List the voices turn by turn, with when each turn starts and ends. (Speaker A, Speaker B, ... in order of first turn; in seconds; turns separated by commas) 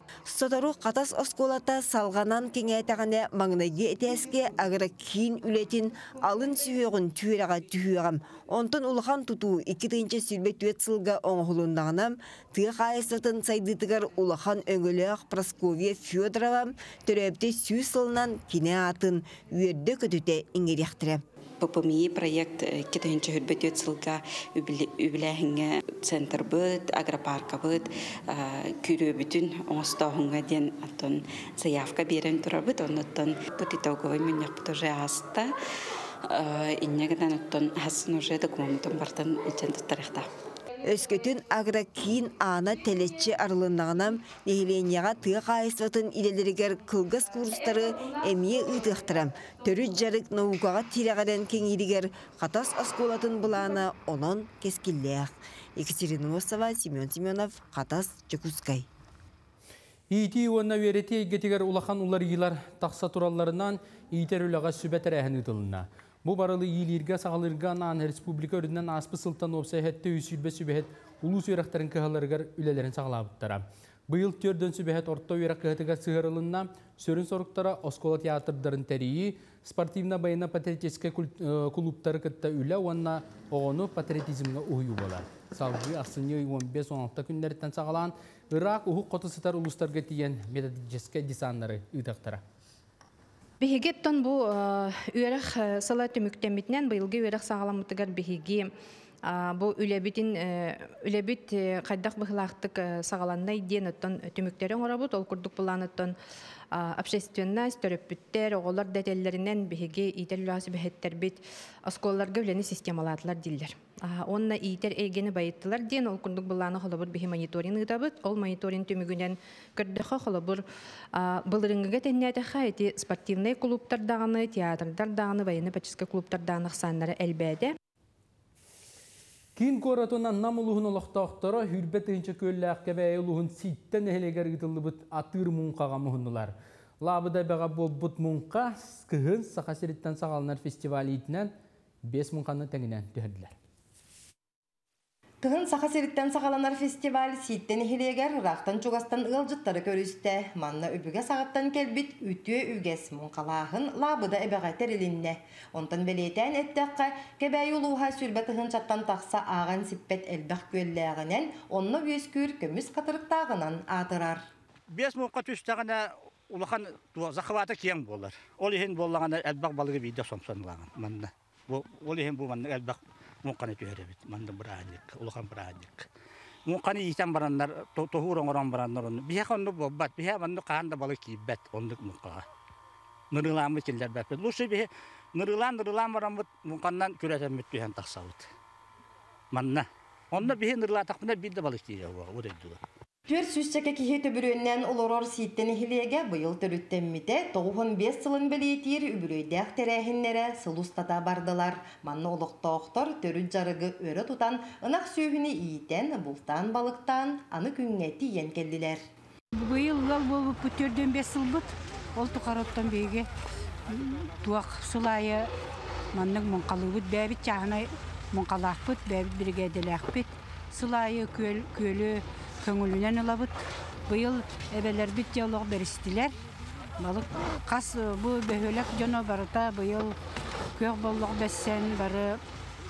Speaker A: 0.3-21.2, Speaker B: 21.6-35.5, Speaker B: 36.3-40.3, Speaker A: 40.8-58.9, Speaker C: 60.1-92.4, Speaker D: 93.6-98.7, Speaker D: 99.3-106.2, Speaker D: 106.7-127.8, Speaker C: 129.6-141.5, Speaker C: 142.1-143.5, Speaker E: 145.4-164.4, Speaker F: 164.9-176.1, Speaker F: 176.7-182.4, Speaker F: 183.3-188.5, Speaker F: 189.5-192.8, Speaker E: 193.3-209.0, Speaker G: 209.5-213.3, Speaker G: 213.9-215.5, Speaker G: 216.1-223.6, Speaker G: 224.1-226.3, Speaker G: 227.0-230.2, Speaker G: 230.8-232.4